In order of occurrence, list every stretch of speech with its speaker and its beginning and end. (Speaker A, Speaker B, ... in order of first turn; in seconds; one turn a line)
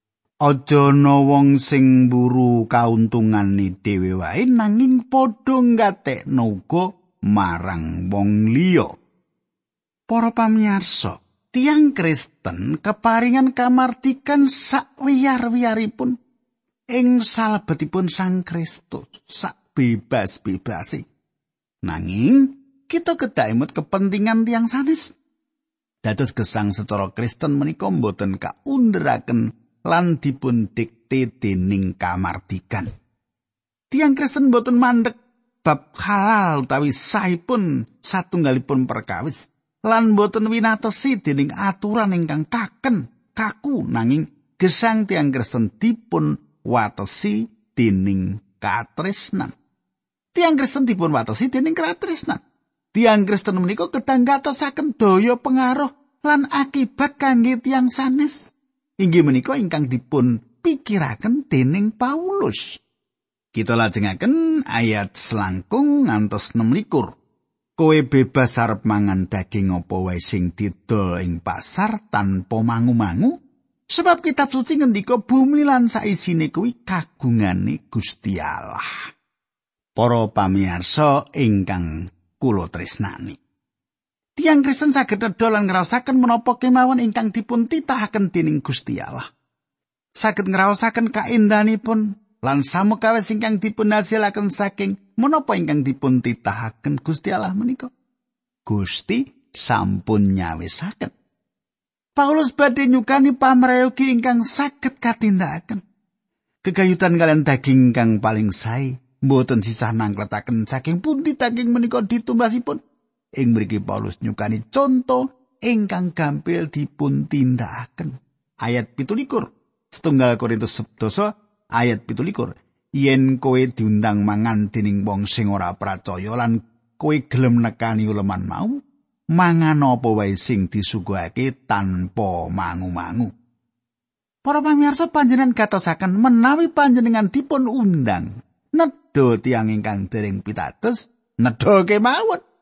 Speaker A: 0.4-8.9
Speaker A: 10.1-16.2
Speaker A: 16.9-21.0
Speaker A: 21.8-25.1
Speaker A: 26.0-32.9
Speaker A: 33.9-49.5
Speaker A: 50.3-52.4
Speaker A: 52.9-62.8
Speaker A: 63.5-67.2
Speaker A: 67.8-73.4
Speaker A: 73.9-78.8
Speaker A: 80.0-83.4
Speaker A: 84.3-89.3
Speaker A: 90.2-97.9
Speaker A: 98.7-101.1
Speaker A: 102.2-105.8
Speaker A: 106.6-112.8
Speaker A: 113.4-128.8
Speaker A: 129.3-133.3
Speaker A: 134.4-142.4